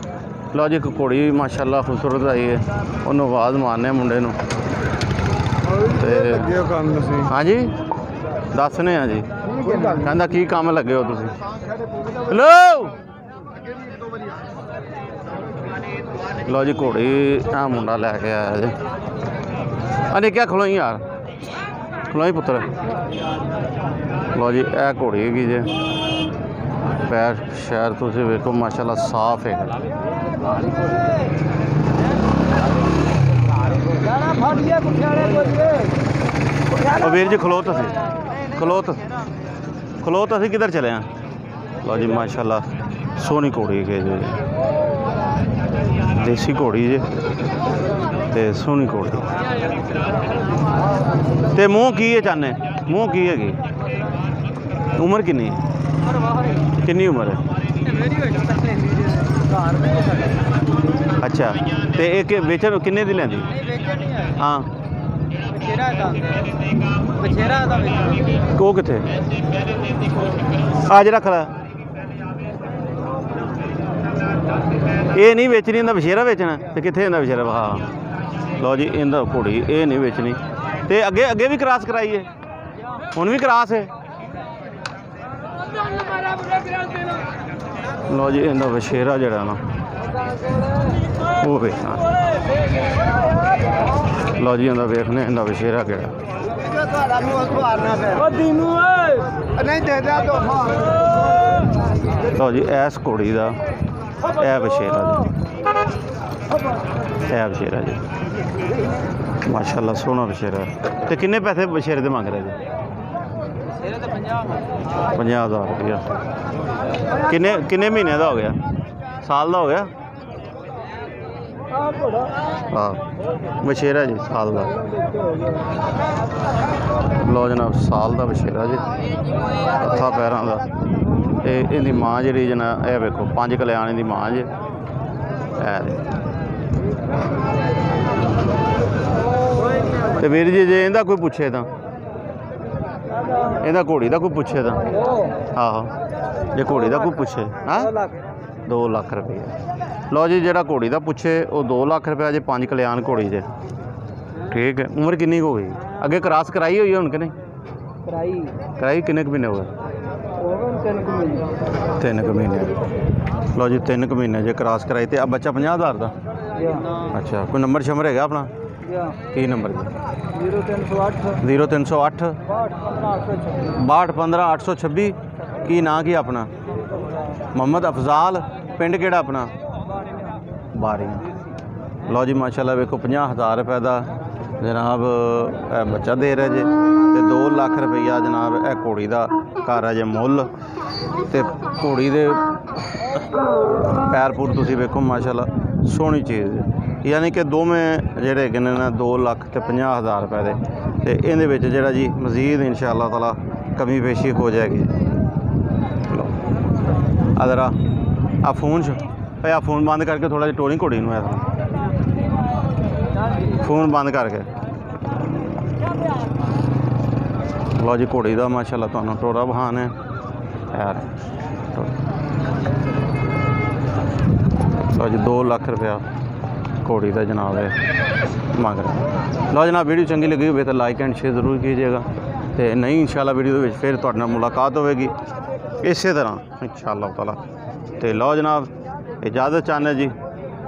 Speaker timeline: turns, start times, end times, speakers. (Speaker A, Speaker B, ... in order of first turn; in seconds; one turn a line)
Speaker A: 0.5-4.4
Speaker A: 5.9-7.8
Speaker B: 6.7-7.0
Speaker A: 8.5-11.3
Speaker A: 12.2-12.9
Speaker A: 16.5-18.8
Speaker A: 20.1-21.0
Speaker A: 22.1-22.7
Speaker A: 24.3-25.7
Speaker A: 27.0-29.8
Speaker B: 34.3-35.7
Speaker A: 36.9-38.0
Speaker A: 38.5-39.0
Speaker A: 40.0-41.1
Speaker A: 41.8-44.4
Speaker A: 46.1-47.1
Speaker A: 48.3-49.3
Speaker A: 51.5-53.6
Speaker A: 55.0-55.6
Speaker A: 56.8-57.4
Speaker B: 58.2-59.0
Speaker A: 61.2-63.6
Speaker A: 64.3-64.7
Speaker B: 65.6-66.4
Speaker B: 67.2-68.1
Speaker A: 68.5-69.1
Speaker A: 70.8-71.5
Speaker A: 75.1-77.9
Speaker A: 78.6-82.3
Speaker A: 83.1-83.9
Speaker A: 88.1-89.6
Speaker A: 91.3-92.0
Speaker A: 94.4-96.2
Speaker B: 97.1-100.6
Speaker A: 102.3-103.6
Speaker A: 104.3-105.3
Speaker A: 107.3-108.0
Speaker A: 109.4-112.6
Speaker A: 115.1-116.2
Speaker A: 117.2-118.6
Speaker A: 119.2-119.9
Speaker A: 122.7-123.1
Speaker A: 123.6-124.8
Speaker A: 127.2-128.9
Speaker A: 129.7-130.7
Speaker A: 131.4-134.5
Speaker A: 135.6-136.1
Speaker A: 140.1-141.7
Speaker A: 143.5-145.0
Speaker A: 145.5-145.9
Speaker A: 146.6-147.9
Speaker A: 148.7-149.5
Speaker A: 150.1-153.5
Speaker A: 154.4-157.3
Speaker B: 158.1-158.5
Speaker A: 158.8-159.7
Speaker B: 160.5-161.5
Speaker A: 162.0-162.8
Speaker A: 163.5-166.1
Speaker A: 167.0-168.5
Speaker A: 169.3-169.9
Speaker B: 170.4-171.4
Speaker A: 171.3-172.4
Speaker A: 173.6-176.5
Speaker A: 177.5-179.5
Speaker A: 180.7-181.3
Speaker A: 182.1-190.5
Speaker A: 191.3-192.5
Speaker A: 194.0-204.9
Speaker A: 207.3-207.8
Speaker A: 208.4-211.5
Speaker A: 213.5-214.5
Speaker A: 215.2-215.8
Speaker A: 217.8-219.9
Speaker A: 220.7-221.1
Speaker A: 224.9-226.0
Speaker A: 226.8-227.8
Speaker A: 228.5-235.1
Speaker A: 235.8-237.4
Speaker A: 238.0-240.2